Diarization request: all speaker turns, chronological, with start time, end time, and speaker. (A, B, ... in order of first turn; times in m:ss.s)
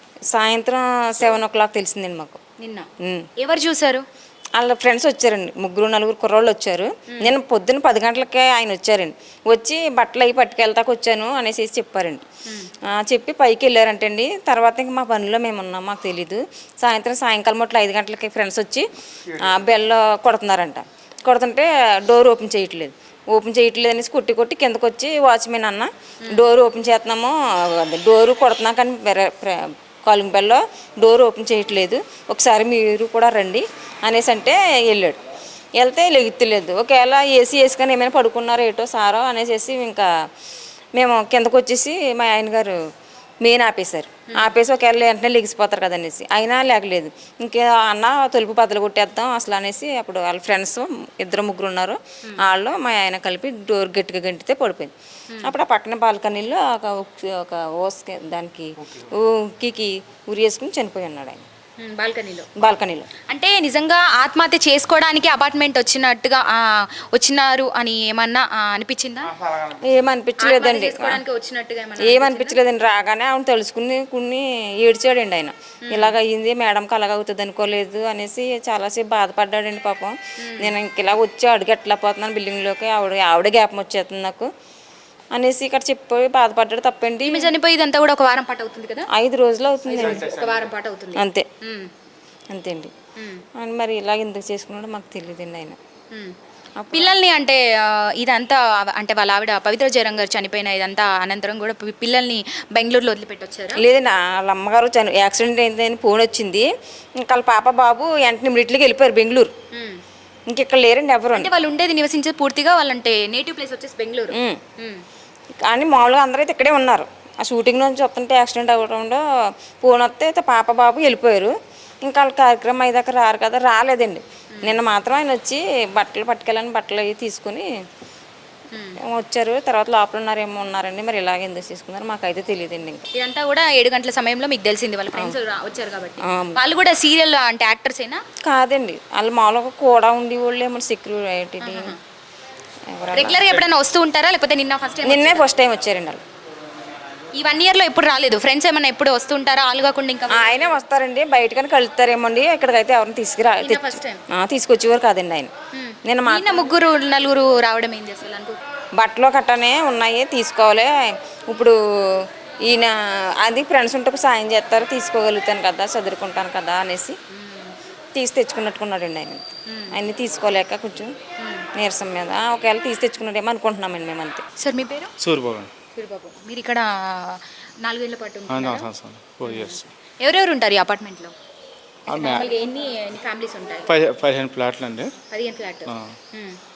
0:00.3-0:02.4 A
0:02.6-0:04.0 B
0:03.0-0:03.3 A
0:04.6-0:12.2 A
0:07.1-0:07.4 B
0:12.5-0:12.7 B
0:12.8-0:35.2 A
0:35.8-0:40.1 A
0:40.9-0:42.8 A
0:43.4-0:54.9 A
0:44.3-0:44.6 B
0:55.4-1:01.4 A
1:01.8-1:02.5 B
1:02.6-1:03.1 A
1:03.3-1:09.3 B
1:09.7-1:11.2 A
1:10.4-1:12.6 B
1:12.0-1:24.5 A
1:15.8-1:16.2 B
1:20.4-1:20.8 B
1:25.3-1:27.5 A
1:27.2-1:29.1 B
1:29.1-1:30.4 A
1:29.9-1:31.9 B
1:31.2-1:31.5 A
1:32.5-1:32.9 A
1:33.2-1:33.4 B
1:33.6-1:35.8 A
1:36.8-1:37.2 A
1:36.9-1:43.8 B
1:43.8-1:49.5 A
1:49.7-1:50.0 B
1:50.5-1:51.5 A
1:51.3-1:55.0 B
1:54.3-1:54.6 A
1:55.6-2:07.7 A
2:08.7-2:09.0 B
2:09.0-2:13.0 A
2:13.1-2:18.2 B
2:16.2-2:16.6 A
2:18.4-2:22.0 A
2:21.6-2:22.0 B
2:22.9-2:23.7 A
2:23.1-2:25.5 B
2:25.0-2:26.2 A
2:27.4-2:30.8 B
2:30.3-2:35.5 A
2:33.6-2:34.2 B
2:35.7-2:38.6 B
2:36.1-2:36.7 A
2:39.0-2:47.2 A
2:47.4-2:47.7 B
2:48.2-2:51.1 A
2:49.7-2:50.0 B
2:51.4-2:51.7 B
2:51.8-2:54.4 A
2:54.6-2:55.1 B
2:55.2-2:55.7 C
2:55.9-2:58.9 B
2:58.5-2:59.9 C
2:59.4-3:01.3 B
3:02.1-3:02.5 C
3:02.1-3:03.9 B
3:03.9-3:05.1 C
3:05.3-3:06.6 B
3:05.9-3:06.1 C